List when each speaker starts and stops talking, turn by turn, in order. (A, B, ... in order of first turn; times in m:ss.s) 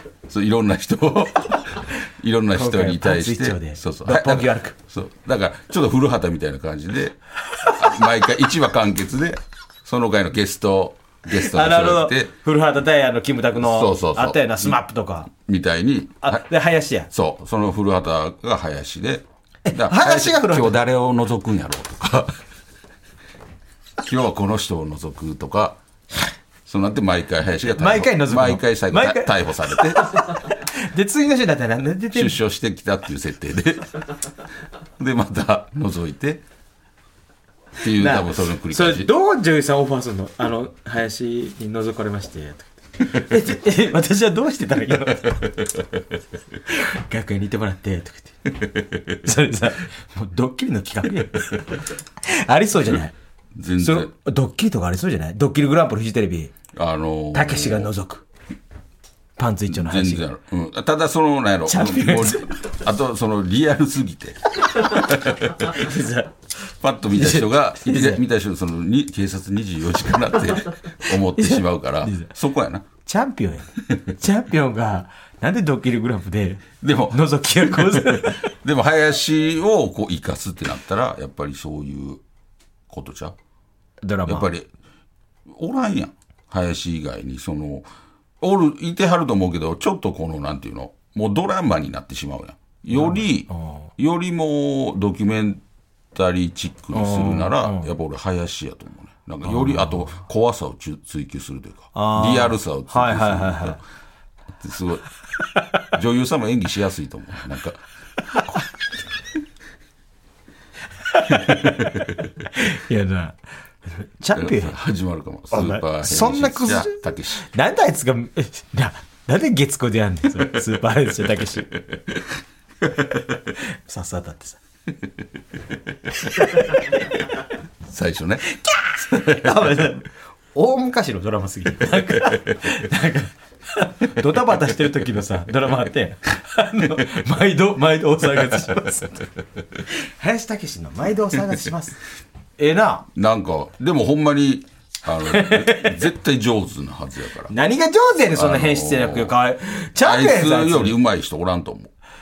0:00.2-0:12.3 A
0:02.5-0:04.8 B
0:07.5-0:08.2 B
0:11.3-0:15.3 B
0:13.6-0:14.8 A
0:15.3-0:16.4 A
0:16.2-0:17.1 B
0:17.1-0:22.4 A
0:19.7-0:20.8 B
0:24.0-0:25.8 A
0:26.7-0:30.4 A
0:27.8-0:32.4 B
0:32.1-0:34.3 A
0:35.0-0:36.4 A
0:37.8-0:39.1 A
0:37.9-0:45.8 B
0:46.7-0:53.1 B
0:53.6-0:54.1 A
0:53.8-0:56.5 B
0:56.7-0:57.9 A
0:57.3-0:58.2 B
0:59.4-1:00.3 B
0:59.7-1:05.9 A
1:01.7-1:02.6 B
1:04.8-1:06.3 B
1:06.8-1:12.8 A
1:07.1-1:08.2 B
1:10.6-1:12.3 B
1:13.1-1:18.5 B
1:16.8-1:22.2 A
1:22.9-1:23.4 A
1:24.0-1:24.5 B
1:24.3-1:24.7 A
1:25.5-1:27.9 A
1:28.4-1:43.8 A
1:32.9-1:33.9 B
1:36.9-1:37.9 B
1:39.4-1:40.1 B
1:41.9-1:43.8 B
1:44.6-1:45.1 A
1:45.6-1:45.8 B
1:45.9-1:47.8 A
1:48.3-1:48.6 B
1:51.0-1:51.8 B
1:51.4-1:52.3 A
1:52.4-1:54.8 B
1:54.3-1:57.4 A
1:55.5-2:01.8 B
2:01.9-2:02.2 A
2:03.5-2:04.6 B
2:06.1-2:07.2 B
2:07.9-2:08.5 A
2:08.4-2:22.0 B
2:09.1-2:09.5 A
2:22.6-2:23.1 B
2:23.1-2:27.5 A
2:25.2-2:26.0 B
2:27.5-2:31.0 B
2:28.3-2:29.4 A
2:30.0-2:31.9 A